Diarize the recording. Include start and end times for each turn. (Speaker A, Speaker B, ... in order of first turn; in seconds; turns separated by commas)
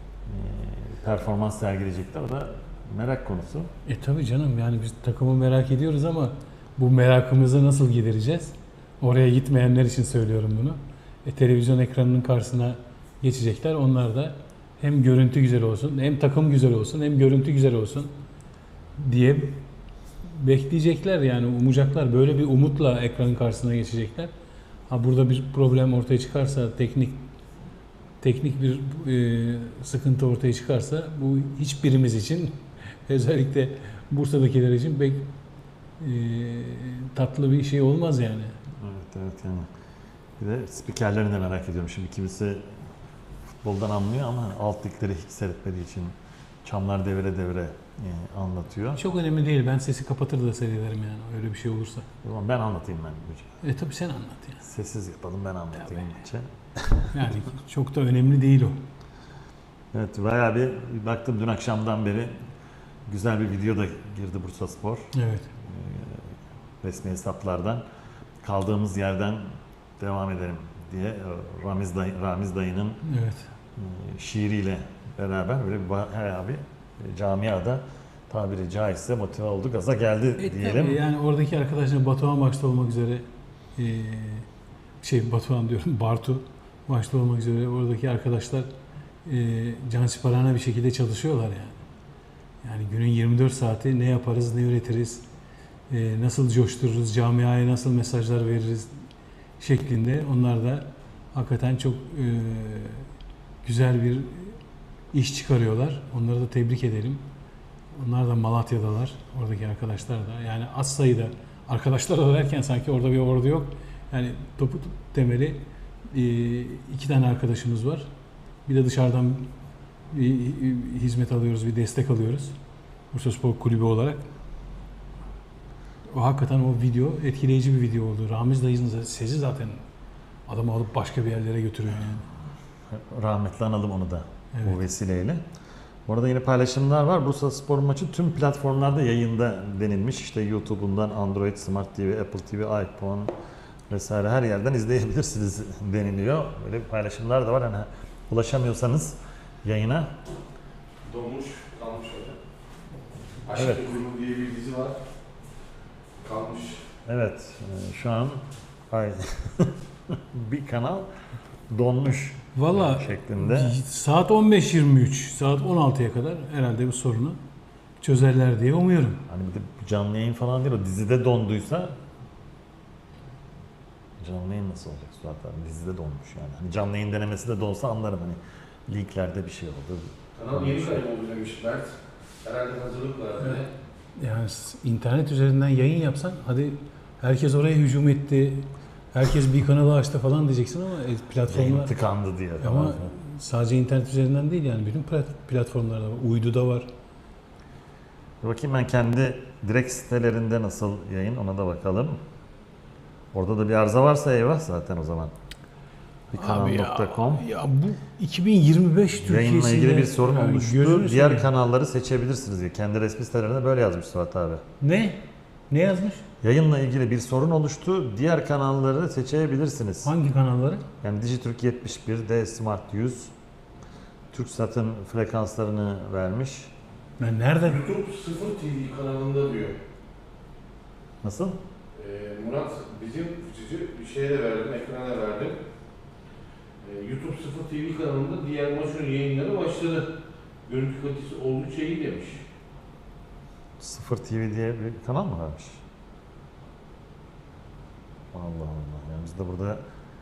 Speaker A: 0.2-3.7, Speaker B: 3.9-18.1, Speaker B: 19.0-19.6, Speaker B: 20.2-24.3, Speaker B: 24.9-27.3, Speaker B: 28.2-35.3, Speaker B: 36.0-38.6, Speaker A: 38.8-39.7, Speaker A: 40.4-42.6, Speaker A: 43.6-49.0, Speaker B: 49.0-52.1, Speaker A: 52.2-53.5, Speaker B: 53.6-54.6, Speaker A: 54.6-57.2, Speaker B: 57.1-58.8, Speaker A: 59.9-62.3, Speaker A: 63.1-65.1, Speaker B: 65.1-65.5, Speaker A: 65.6-66.2, Speaker A: 66.8-67.8, Speaker A: 68.4-73.0, Speaker B: 73.0-73.5, Speaker A: 73.8-81.0, Speaker B: 80.4-84.5, Speaker B: 85.0-88.7, Speaker B: 89.2-91.8, Speaker B: 92.6-95.2, Speaker B: 95.9-99.0, Speaker B: 99.6-103.1, Speaker B: 103.6-104.6, Speaker B: 105.1-107.2, Speaker B: 107.9-118.1, Speaker B: 118.7-119.5, Speaker B: 120.1-122.5, Speaker B: 123.1-124.2, Speaker B: 126.1-129.8, Speaker B: 130.5-132.2, Speaker A: 132.9-135.4, Speaker A: 136.1-143.3, Speaker A: 143.9-150.1, Speaker C: 151.0-152.4, Speaker C: 153.4-155.0, Speaker A: 153.5-153.9, Speaker C: 156.2-156.8, Speaker A: 157.1-161.1, Speaker A: 161.7-163.7, Speaker B: 162.5-167.4, Speaker B: 168.0-169.2, Speaker A: 169.3-171.9, Speaker A: 174.2-181.0, Speaker C: 180.3-183.7, Speaker B: 184.2-191.9, Speaker A: 191.5-193.1, Speaker B: 192.6-196.9, Speaker A: 198.4-202.2, Speaker A: 203.3-205.3, Speaker A: 206.3-207.4, Speaker B: 206.3-211.5, Speaker A: 209.2-214.6, Speaker B: 214.8-216.2, Speaker A: 216.4-220.1, Speaker B: 220.0-220.8, Speaker A: 221.0-223.3, Speaker A: 224.3-226.7, Speaker B: 227.2-227.8, Speaker C: 227.6-229.8, Speaker A: 231.2-231.6, Speaker C: 231.9-235.6, Speaker C: 236.8-240.1, Speaker C: 240.7-242.4, Speaker A: 243.8-245.8, Speaker A: 248.3-249.8